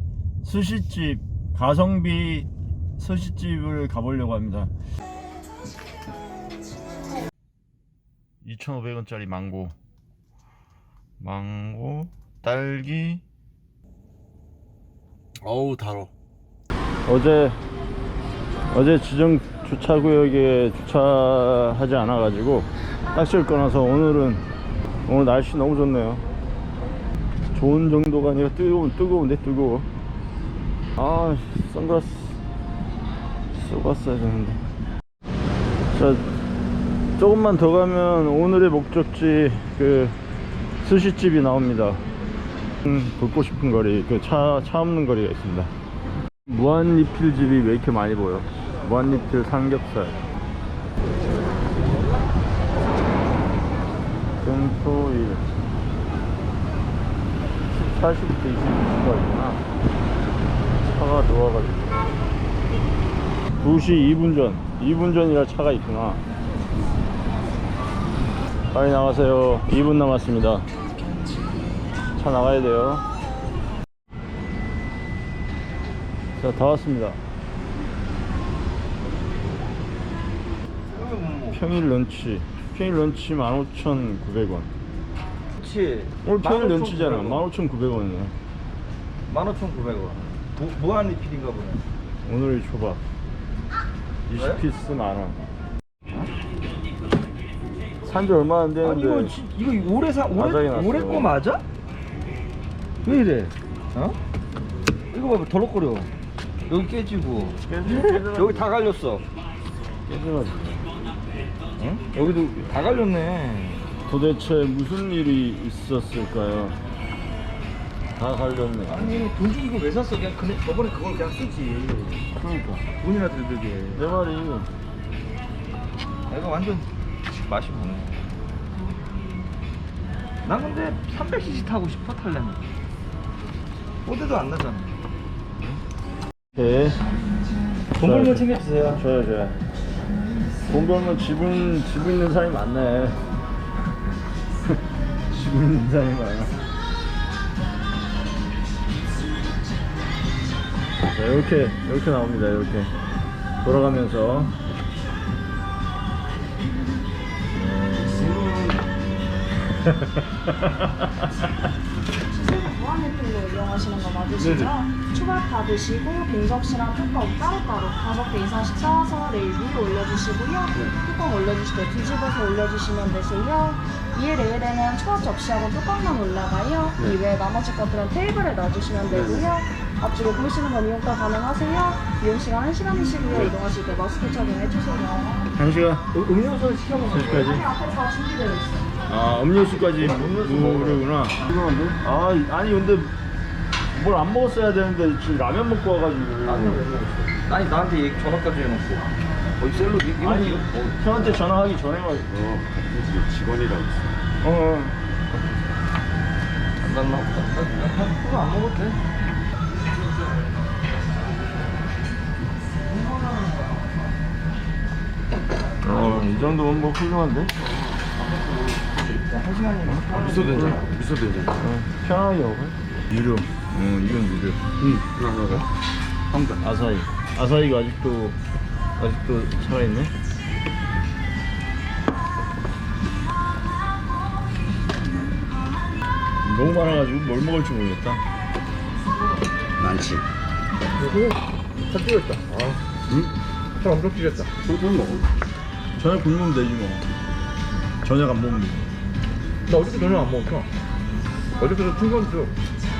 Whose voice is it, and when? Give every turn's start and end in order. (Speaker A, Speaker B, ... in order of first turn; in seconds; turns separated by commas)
Speaker A: 0.4-4.7, Speaker A: 8.4-9.8, Speaker A: 11.2-13.2, Speaker A: 15.4-16.1, Speaker A: 17.1-17.6, Speaker A: 18.7-24.4, Speaker A: 25.1-26.2, Speaker A: 27.5-29.9, Speaker A: 30.9-32.4, Speaker A: 33.5-34.6, Speaker A: 35.9-36.2, Speaker A: 37.2-40.1, Speaker A: 40.8-42.0, Speaker A: 42.8-45.7, Speaker A: 46.5-50.2, Speaker A: 54.4-55.4, Speaker A: 57.7-59.6, Speaker A: 60.8-62.0, Speaker A: 63.6-66.2, Speaker A: 68.7-70.7, Speaker A: 72.2-73.0, Speaker A: 76.4-77.2, Speaker B: 80.9-81.6, Speaker A: 81.5-84.7, Speaker B: 85.6-87.4, Speaker A: 86.2-88.3, Speaker B: 89.3-91.8, Speaker A: 92.2-93.0, Speaker A: 94.3-95.4, Speaker B: 94.3-94.6, Speaker A: 98.0-99.3, Speaker B: 98.8-101.6, Speaker A: 100.3-101.3, Speaker B: 103.0-104.2, Speaker B: 105.1-106.1, Speaker B: 106.7-109.2, Speaker A: 107.7-108.7, Speaker A: 110.1-110.8, Speaker B: 111.8-113.9, Speaker A: 114.0-116.8, Speaker A: 118.2-119.2, Speaker B: 118.9-122.2, Speaker A: 122.3-122.8, Speaker B: 123.0-124.0, Speaker A: 123.9-124.7, Speaker B: 126.3-126.9, Speaker B: 127.4-128.3, Speaker B: 130.4-132.6, Speaker B: 134.0-135.0, Speaker A: 136.5-137.0, Speaker B: 137.9-139.0, Speaker A: 138.0-139.6, Speaker A: 140.7-143.2, Speaker A: 145.3-146.5, Speaker A: 151.1-152.9, Speaker A: 153.6-154.5, Speaker C: 158.0-158.8, Speaker D: 162.2-185.4, Speaker C: 164.4-164.7, Speaker C: 179.1-179.4, Speaker A: 185.5-186.1, Speaker B: 186.1-187.6, Speaker A: 187.1-187.7, Speaker D: 187.4-188.9, Speaker A: 189.1-193.1, Speaker B: 189.9-191.1, Speaker A: 193.9-196.8, Speaker B: 196.4-201.4, Speaker A: 200.2-202.3, Speaker C: 202.3-204.1, Speaker A: 204.4-205.0, Speaker B: 206.8-209.0, Speaker B: 212.8-213.9, Speaker A: 215.8-217.5, Speaker B: 218.2-220.9, Speaker C: 220.1-221.6, Speaker A: 221.6-224.6, Speaker C: 224.8-225.7, Speaker C: 226.3-226.6, Speaker A: 226.6-228.4, Speaker A: 229.0-230.1, Speaker A: 236.4-238.2, Speaker C: 239.8-240.2, Speaker B: 241.0-241.4, Speaker B: 241.9-242.8, Speaker B: 243.8-244.5, Speaker C: 244.6-245.3, Speaker A: 246.0-247.1, Speaker A: 248.0-248.8, Speaker B: 249.7-250.7, Speaker B: 251.6-252.5